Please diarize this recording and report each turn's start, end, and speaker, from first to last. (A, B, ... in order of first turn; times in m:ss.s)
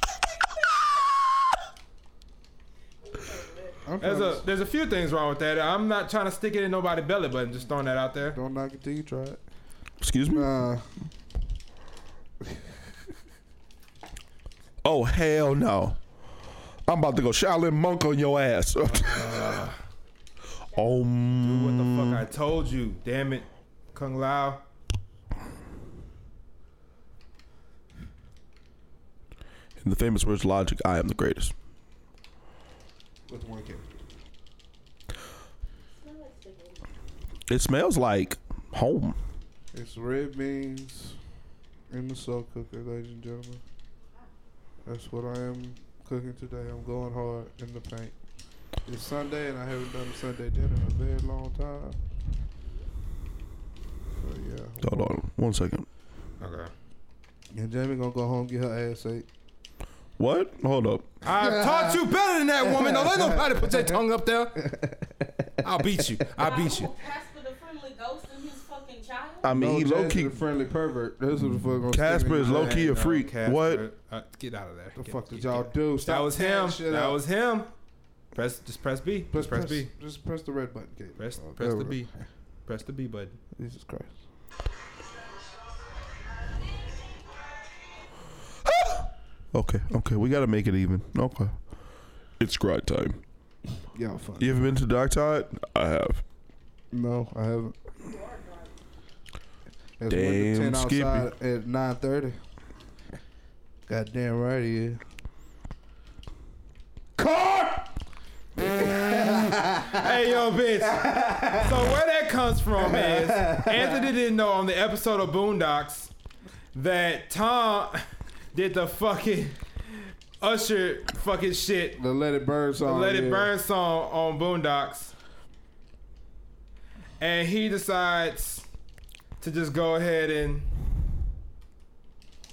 0:03.0-0:03.8 A
0:03.8-0:04.4 B
0:04.0-0:08.4 C
0:08.3-0:09.4 B
0:10.0-0:10.5 D
0:10.3-0:10.8 B
0:14.8-0:16.0 D
0:16.8-0:19.7 D
0:19.0-0:19.8 C
0:20.7-0:22.2 D
0:21.4-0:24.6 C
0:29.8-0:31.5 D
0:33.3-0:33.8 B
0:36.0-0:36.9 A
0:37.5-0:39.2 D
0:39.7-0:41.2 B
0:41.9-0:43.6 B
0:44.8-0:48.1 B
0:48.8-0:52.0 B
0:54.2-0:55.2 B
0:54.8-0:55.9 D
0:56.4-0:56.7 C
0:57.5-0:59.2 B
1:00.2-1:01.1 D
1:01.2-1:04.6 C
1:01.4-1:02.0 B
1:02.6-1:03.9 B
1:04.6-1:05.6 B
1:05.6-1:06.9 C
1:06.4-1:09.5 A
1:09.4-1:10.4 D
1:09.4-1:12.9 B
1:11.4-1:13.8 D
1:12.4-1:17.7 C
1:15.0-1:17.2 B
1:18.3-1:19.9 C
1:19.3-1:22.2 B
1:21.2-1:22.1 C
1:22.6-1:23.4 C
1:23.6-1:24.1 B
1:28.7-1:31.6 D
1:32.4-1:33.2 D
1:33.9-1:34.5 B
1:34.4-1:36.2 D
1:36.9-1:37.7 B
1:38.0-1:38.7 A
1:40.0-1:42.4 B
1:40.1-1:41.3 D
1:43.9-1:45.0 B
1:47.2-1:47.9 B
1:48.6-1:50.1 B
1:50.0-1:56.1 C
1:50.8-1:51.8 B
1:52.8-1:54.1 B
1:56.7-1:59.6 C
2:00.4-2:02.0 C
2:02.0-2:03.5 B
2:02.8-2:05.1 C
2:07.2-2:08.7 C
2:09.4-2:10.7 C